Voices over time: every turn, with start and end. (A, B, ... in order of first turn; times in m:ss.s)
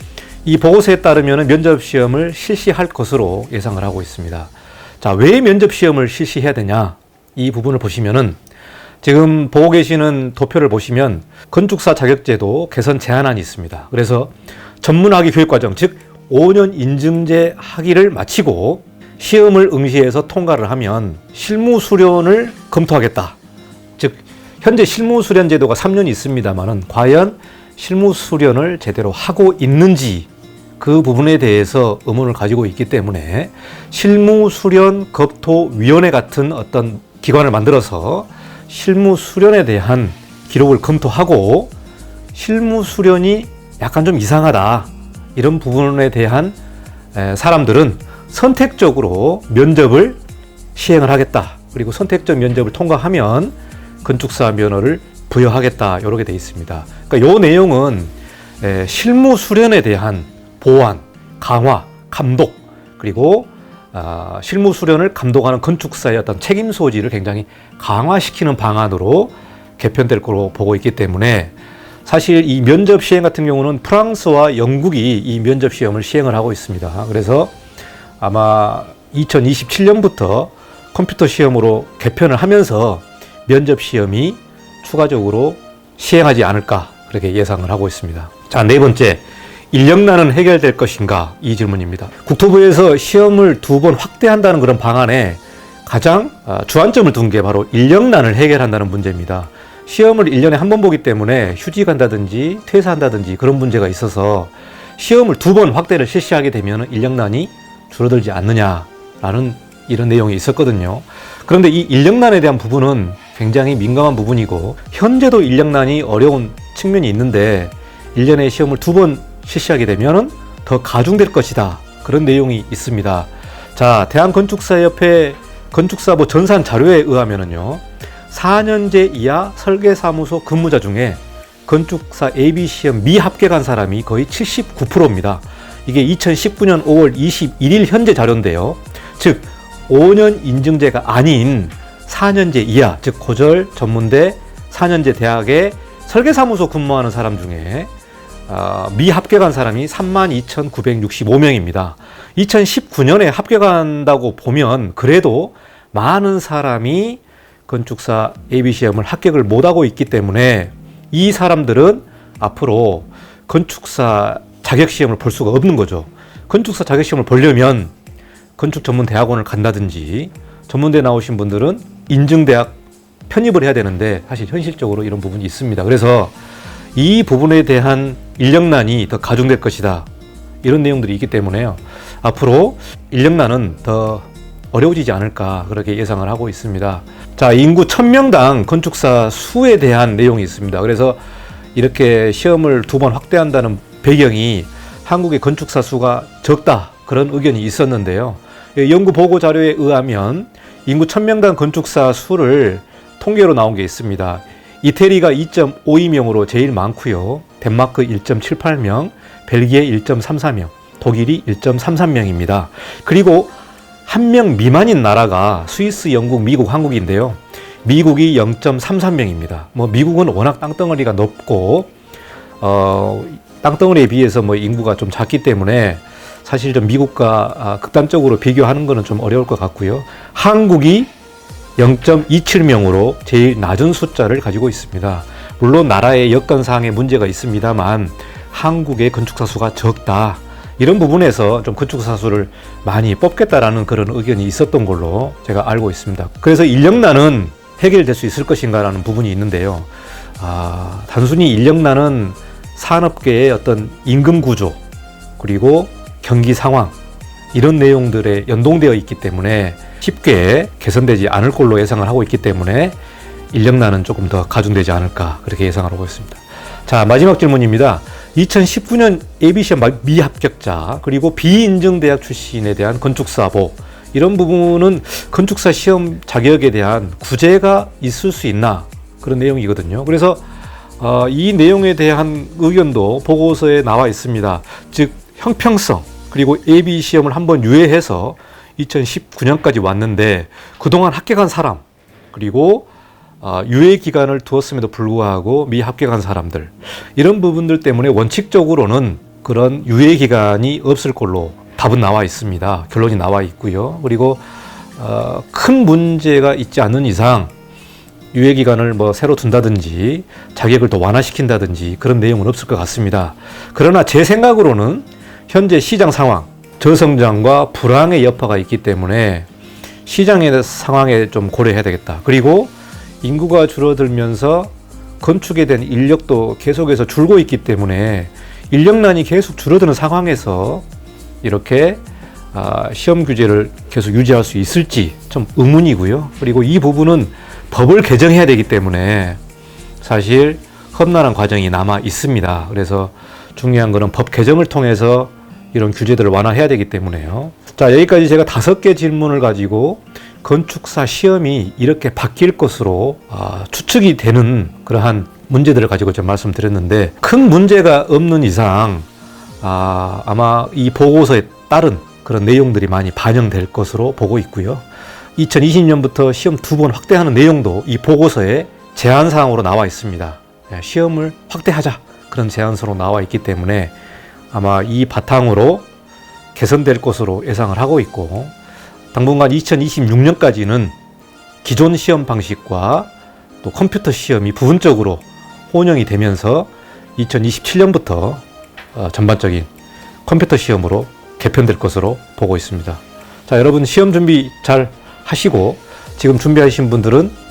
0:00.4-0:08.4 A
0:09.0-0:23.4 A
0:24.0-0:41.7 A
0:42.3-0:46.6 A
0:47.1-0:50.2 A
0:50.8-1:11.5 A
1:12.0-1:17.5 A
1:18.2-2:27.9 A
2:28.5-2:47.9 A
2:48.6-2:52.8 A
2:53.3-2:56.4 A
2:57.0-3:00.1 A
3:00.6-3:11.2 A
3:11.8-3:33.5 A
3:34.1-3:41.9 A
3:42.6-3:51.1 A
3:51.8-4:14.8 A
4:15.4-4:17.0 A
4:17.5-4:23.0 A
4:23.5-4:40.4 A
4:41.0-4:52.9 A
4:53.4-5:04.4 A
5:05.0-5:07.5 A
5:08.3-5:19.5 A
5:20.0-5:30.8 A
5:31.4-5:32.0 A
5:32.5-5:39.4 A
5:40.0-5:59.1 A
5:59.6-6:13.9 A
6:14.5-6:15.8 A
6:16.6-6:18.5 A
6:19.1-6:21.0 A
6:21.6-6:23.1 A
6:23.6-6:28.4 A
6:28.9-6:29.7 A
6:30.3-6:37.4 A